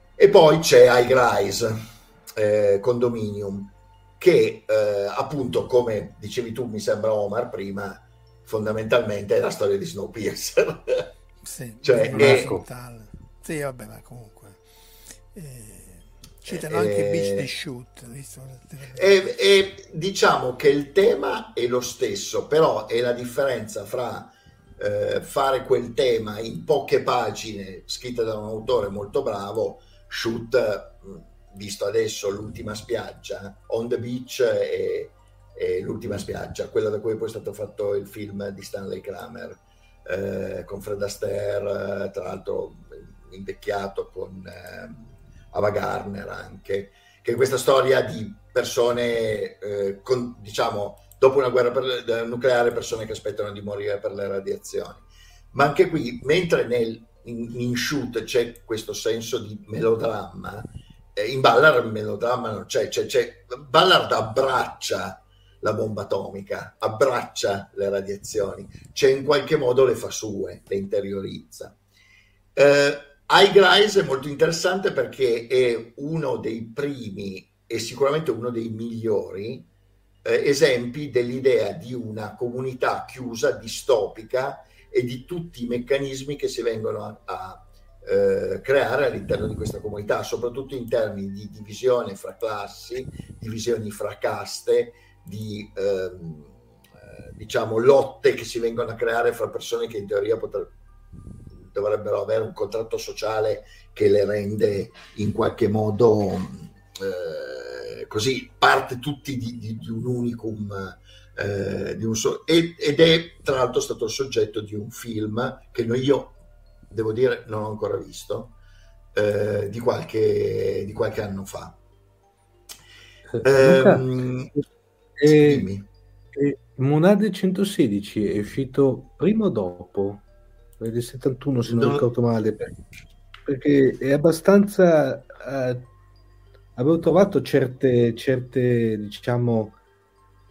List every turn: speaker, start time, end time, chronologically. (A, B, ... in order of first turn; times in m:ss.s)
0:00.2-0:11.1 A
0:11.4-0:14.6 B
0:11.8-0:12.5 A
0:12.1-0:12.6 C
0:15.3-0:19.1 B
0:16.5-0:17.5 A
0:18.9-1:11.8 A
1:12.6-1:19.7 A
1:20.2-1:36.6 A
1:37.3-1:40.7 A
1:41.6-1:56.4 A
1:56.9-1:58.6 A
1:59.1-2:01.8 A
2:03.4-2:04.1 C
2:03.4-2:04.5 A
2:05.2-2:05.7 C
2:05.3-2:05.9 A
2:06.4-2:10.2 C
2:10.8-2:12.7 C
2:11.6-2:12.1 A
2:13.5-2:15.9 C
2:16.8-2:19.8 C